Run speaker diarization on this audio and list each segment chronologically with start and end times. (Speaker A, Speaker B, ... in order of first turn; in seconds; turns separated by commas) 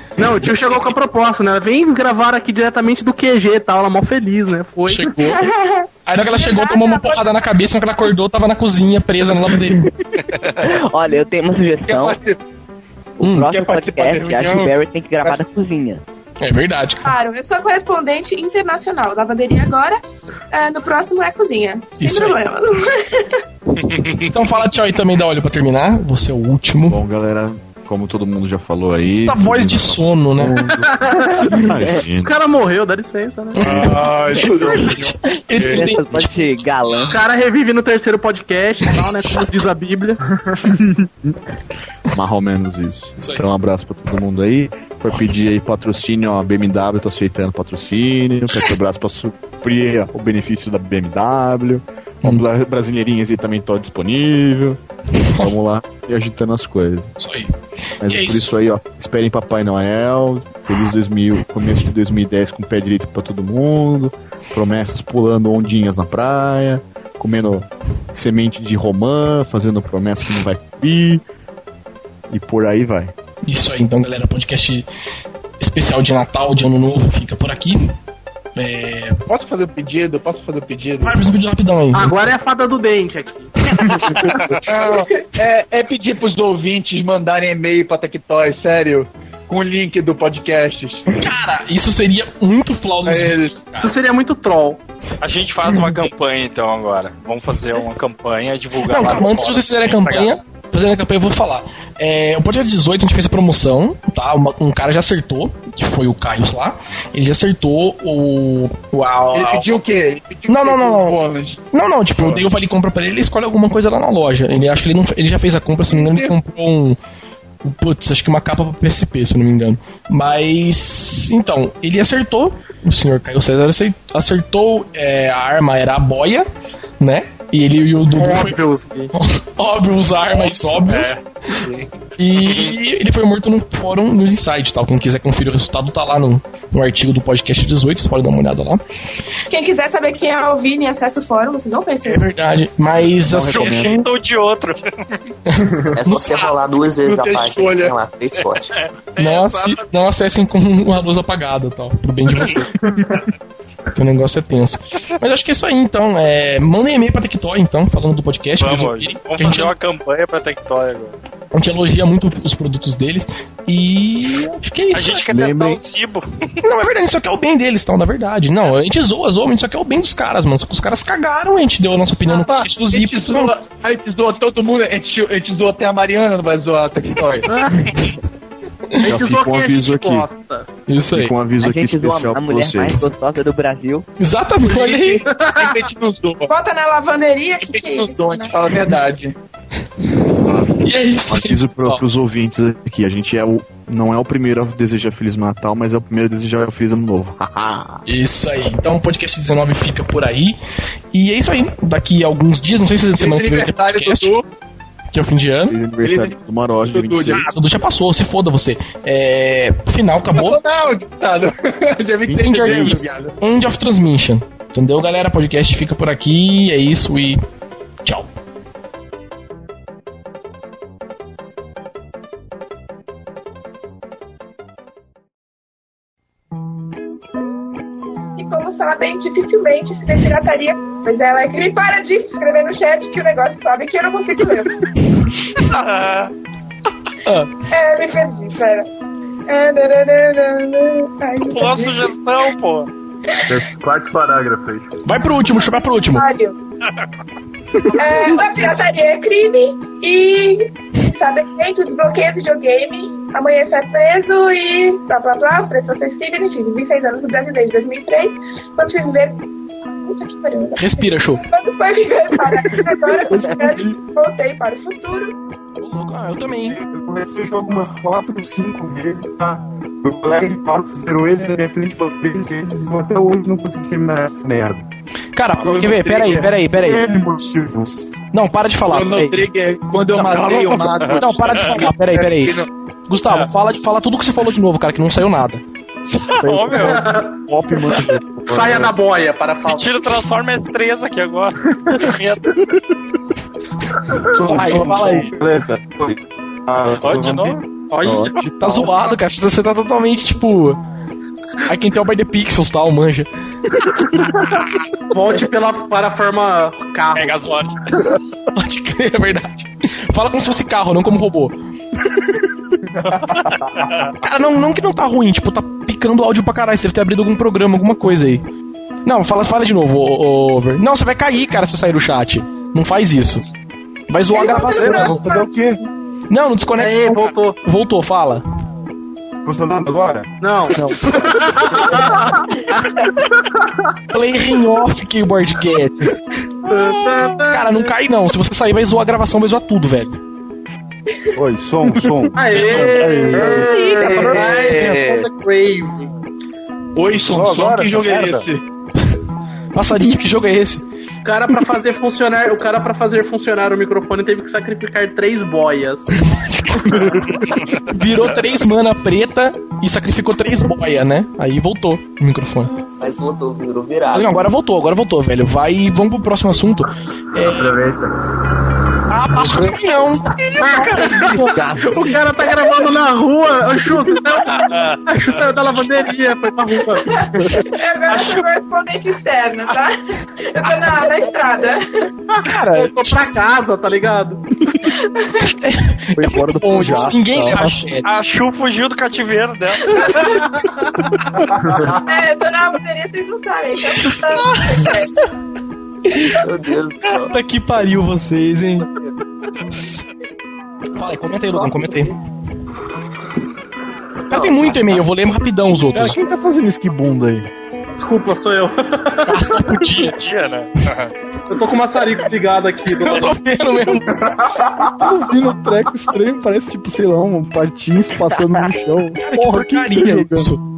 Speaker A: 0.2-5.1, Speaker B: 4.9-5.4, Speaker C: 5.2-7.2, Speaker B: 6.0-9.9, Speaker D: 10.2-10.7, Speaker E: 10.6-12.2, Speaker F: 11.8-12.4, Speaker E: 13.2-16.0, Speaker B: 13.2-13.6, Speaker F: 13.4-15.4, Speaker B: 16.4-17.1, Speaker C: 17.0-20.0, Speaker C: 20.5-23.4, Speaker B: 22.0-22.4, Speaker D: 23.9-24.2, Speaker B: 24.3-27.0, Speaker G: 26.9-32.3, Speaker B: 29.1-30.6, Speaker A: 30.7-31.6, Speaker A: 32.2-33.7, Speaker B: 33.5-37.1, Speaker F: 33.6-35.9, Speaker E: 35.7-37.2, Speaker A: 37.0-40.2, Speaker G: 40.6-41.4, Speaker G: 42.1-54.8, Speaker B: 43.2-43.5, Speaker B: 55.2-55.5, Speaker G: 55.3-57.1, Speaker B: 57.2-57.5, Speaker G: 58.0-71.2, Speaker B: 58.0-58.5, Speaker G: 72.3-73.1, Speaker B: 73.4-74.8, Speaker B: 75.6-77.9, Speaker B: 78.5-79.2, Speaker F: 79.3-81.2, Speaker B: 81.0-82.2, Speaker A: 81.9-83.5, Speaker D: 84.0-84.6, Speaker F: 84.7-91.0, Speaker B: 91.1-93.9, Speaker F: 93.0-93.5, Speaker A: 93.8-94.8, Speaker D: 95.2-100.3, Speaker B: 98.8-109.8, Speaker F: 109.3-111.6, Speaker B: 110.5-111.2, Speaker B: 111.7-117.0, Speaker F: 112.2-112.5, Speaker F: 115.9-116.3, Speaker B: 117.6-126.5, Speaker B: 127.0-128.6, Speaker A: 128.1-129.1, Speaker B: 129.1-131.2, Speaker D: 130.2-132.8, Speaker B: 132.2-138.8, Speaker C: 139.5-142.3, Speaker B: 142.0-144.1, Speaker G: 143.2-144.0, Speaker D: 143.4-144.8, Speaker B: 145.5-146.4, Speaker H: 145.6-145.9, Speaker I: 145.9-148.7, Speaker F: 147.0-147.9, Speaker D: 148.3-149.8, Speaker B: 149.2-152.7, Speaker G: 152.8-153.2, Speaker B: 153.9-159.7, Speaker D: 158.6-161.2, Speaker B: 161.5-165.3, Speaker D: 164.9-166.6, Speaker G: 165.3-165.8, Speaker B: 166.6-173.5, Speaker F: 172.2-177.5, Speaker A: 177.4-177.8, Speaker G: 179.0-180.3, Speaker A: 179.1-180.7, Speaker B: 180.9-181.3, Speaker G: 181.1-183.1, Speaker E: 181.6-184.1, Speaker B: 184.2-185.3, Speaker F: 184.6-186.5, Speaker A: 185.3-185.8, Speaker C: 186.5-188.6, Speaker F: 187.6-189.3, Speaker G: 190.4-198.0, Speaker B: 190.8-192.0, Speaker B: 198.1-200.6, Speaker B: 201.1-204.3, Speaker F: 203.2-204.4, Speaker B: 205.1-205.8, Speaker G: 205.7-207.5, Speaker F: 206.0-207.6, Speaker B: 207.4-210.6, Speaker F: 210.2-213.3, Speaker G: 212.3-213.0, Speaker B: 212.3-217.4, Speaker B: 218.0-218.3, Speaker C: 228.4-234.8, Speaker D: 235.5-236.3, Speaker B: 237.2-237.5, Speaker C: 237.7-238.9, Speaker C: 239.5-242.2, Speaker D: 241.4-242.9, Speaker H: 243.5-244.9, Speaker B: 245.0-246.2, Speaker C: 245.5-246.6, Speaker C: 247.9-259.4, Speaker C: 260.0-265.4, Speaker B: 260.8-261.4, Speaker G: 262.7-263.9, Speaker B: 265.8-266.8, Speaker J: 266.5-274.8, Speaker B: 275.3-277.0, Speaker F: 275.6-276.5, Speaker J: 276.7-278.1, Speaker B: 278.3-279.4, Speaker F: 278.9-282.7, Speaker B: 280.1-282.6, Speaker D: 280.7-281.8, Speaker B: 283.1-285.6, Speaker D: 286.1-287.1, Speaker G: 286.4-288.9, Speaker A: 286.8-287.4, Speaker A: 287.9-290.0, Speaker D: 289.6-292.6, Speaker J: 294.2-297.6, Speaker B: 294.3-295.3, Speaker G: 294.6-295.1, Speaker D: 297.0-298.3, Speaker G: 298.0-298.9, Speaker B: 298.4-300.8, Speaker B: 301.6-303.3, Speaker A: 305.1-307.4, Speaker D: 307.1-308.2, Speaker B: 308.5-311.6, Speaker J: 313.0-313.4, Speaker D: 313.1-314.1, Speaker B: 314.2-318.4, Speaker B: 319.1-323.4, Speaker B: 324.1-325.3, Speaker C: 324.3-325.6, Speaker J: 324.4-325.8, Speaker A: 324.8-325.3, Speaker G: 324.8-325.2, Speaker B: 326.3-328.4, Speaker A: 326.8-327.6, Speaker J: 329.4-330.3, Speaker A: 330.4-333.0, Speaker G: 330.7-332.1, Speaker B: 334.1-336.2, Speaker A: 336.6-337.8, Speaker D: 336.9-337.2, Speaker B: 337.4-340.2, Speaker J: 341.3-342.4, Speaker A: 342.3-346.1, Speaker B: 342.5-344.9, Speaker G: 342.7-343.8, Speaker D: 344.6-345.2, Speaker F: 346.9-348.6, Speaker J: 347.3-348.4, Speaker B: 349.7-350.8, Speaker A: 351.2-356.1, Speaker B: 356.2-357.1, Speaker D: 357.1-357.9, Speaker B: 357.9-362.7, Speaker I: 363.0-364.4, Speaker B: 364.1-367.8, Speaker H: 367.5-368.1, Speaker B: 369.1-371.4, Speaker A: 370.6-377.3, Speaker F: 371.1-371.8, Speaker G: 371.1-372.1, Speaker D: 374.5-375.6, Speaker C: 377.0-382.1, Speaker D: 378.1-378.4, Speaker B: 382.4-383.3, Speaker A: 382.7-384.4, Speaker C: 384.8-385.5, Speaker B: 385.4-388.1, Speaker G: 386.1-387.9, Speaker D: 387.5-390.5, Speaker C: 389.9-390.4, Speaker A: 390.6-390.8, Speaker H: 391.6-391.9, Speaker C: 391.9-395.1, Speaker B: 394.2-395.1, Speaker I: 396.3-397.3, Speaker B: 397.3-398.9, Speaker B: 400.9-402.1, Speaker I: 401.5-402.1, Speaker B: 404.3-406.2, Speaker I: 404.3-404.8, Speaker G: 405.9-407.5, Speaker A: 408.0-409.4, Speaker B: 409.2-410.2, Speaker D: 409.9-411.1, Speaker A: 411.5-413.4, Speaker B: 412.9-414.2, Speaker J: 414.2-415.0, Speaker G: 414.8-420.5, Speaker B: 419.2-420.6